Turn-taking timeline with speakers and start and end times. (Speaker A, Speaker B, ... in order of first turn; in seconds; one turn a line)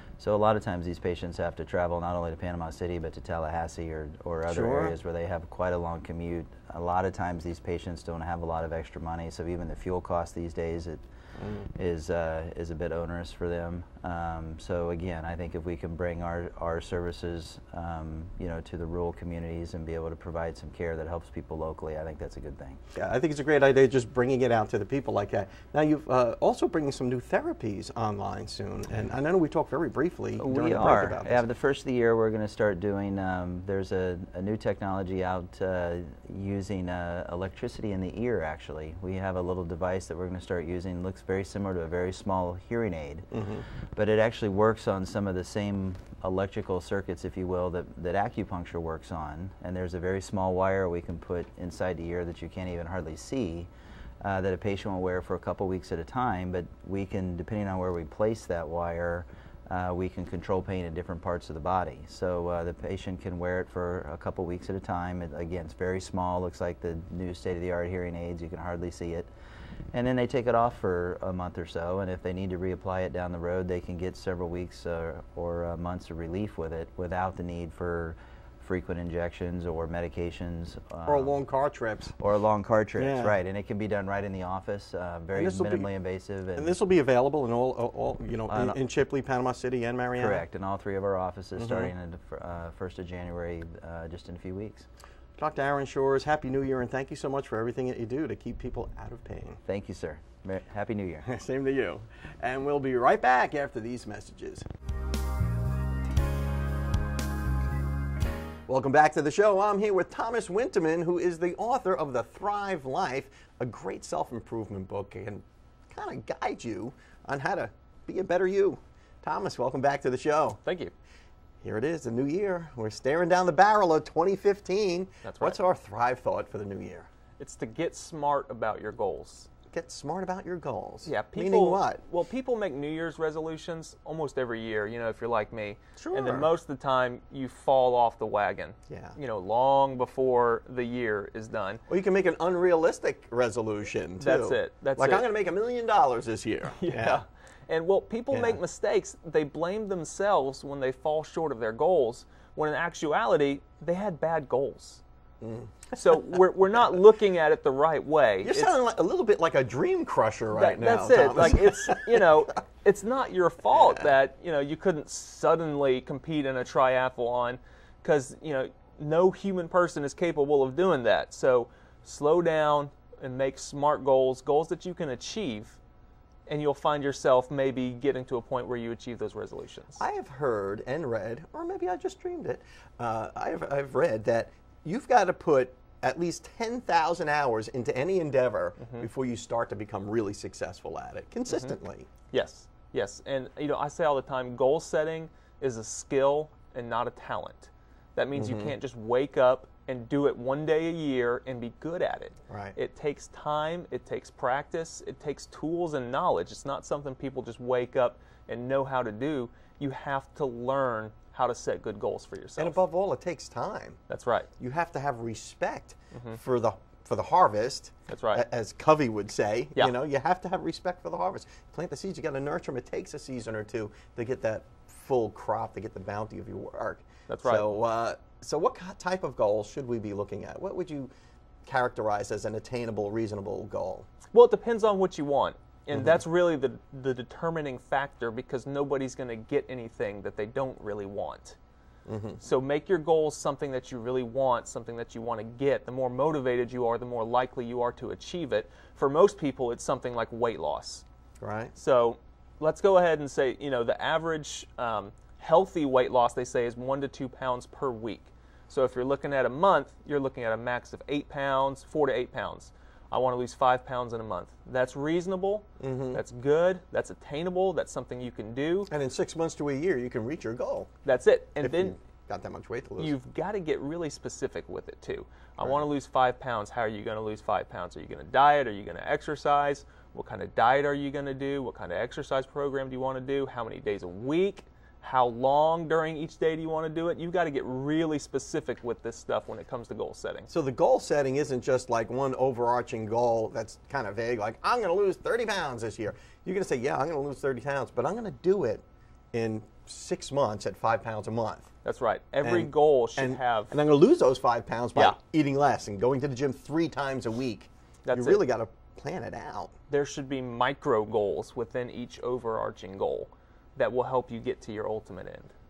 Speaker A: 0.2-11.0
Speaker B: 4.5-5.0
Speaker B: 11.4-11.7
Speaker A: 11.7-22.8
Speaker B: 22.9-31.5
Speaker A: 30.4-43.3
Speaker B: 43.3-43.6
Speaker A: 43.9-53.7
Speaker A: 54.2-69.3
Speaker A: 69.9-81.4
Speaker B: 81.0-82.1
Speaker A: 82.2-86.8
Speaker B: 83.0-83.4
Speaker B: 85.3-85.9
Speaker B: 86.6-90.4
Speaker A: 88.5-88.8
Speaker A: 90.1-94.9
Speaker B: 91.6-91.9
Speaker B: 95.4-99.6
Speaker A: 99.6-101.3
Speaker B: 101.2-104.7
Speaker B: 108.7-120.6
Speaker C: 120.6-120.9
Speaker B: 121.6-127.1
Speaker C: 125.2-125.6
Speaker C: 127.4-129.5
Speaker B: 129.7-132.0
Speaker C: 131.1-141.8
Speaker B: 136.0-136.5
Speaker B: 138.9-139.2
Speaker B: 141.9-147.2
Speaker C: 144.2-145.3
Speaker C: 146.8-155.0
Speaker B: 148.3-148.6
Speaker B: 155.4-155.9
Speaker C: 155.9-158.8
Speaker B: 158.4-162.2
Speaker C: 160.5-175.8
Speaker C: 176.5-180.0
Speaker B: 180.0-192.1
Speaker C: 188.8-189.1
Speaker C: 191.5-191.8
Speaker C: 192.3-212.8
Speaker B: 198.3-198.7
Speaker B: 202.5-202.8
Speaker B: 212.6-214.0
Speaker C: 214.1-214.5
Speaker B: 214.6-231.1
Speaker C: 216.1-216.4
Speaker C: 218.1-218.4
Speaker C: 227.3-227.7
Speaker B: 231.6-234.1
Speaker C: 234.3-241.6
Speaker B: 242.1-242.4
Speaker C: 242.4-251.0
Speaker B: 251.4-251.7
Speaker C: 251.7-268.9
Speaker B: 265.8-266.2
Speaker B: 268.9-270.9
Speaker C: 271.0-271.9
Speaker B: 271.6-273.1
Speaker C: 273.0-290.5
Speaker B: 275.6-275.8
Speaker B: 290.5-301.7
Speaker C: 301.8-303.8
Speaker B: 302.4-309.7
Speaker C: 308.1-308.4
Speaker C: 309.9-315.5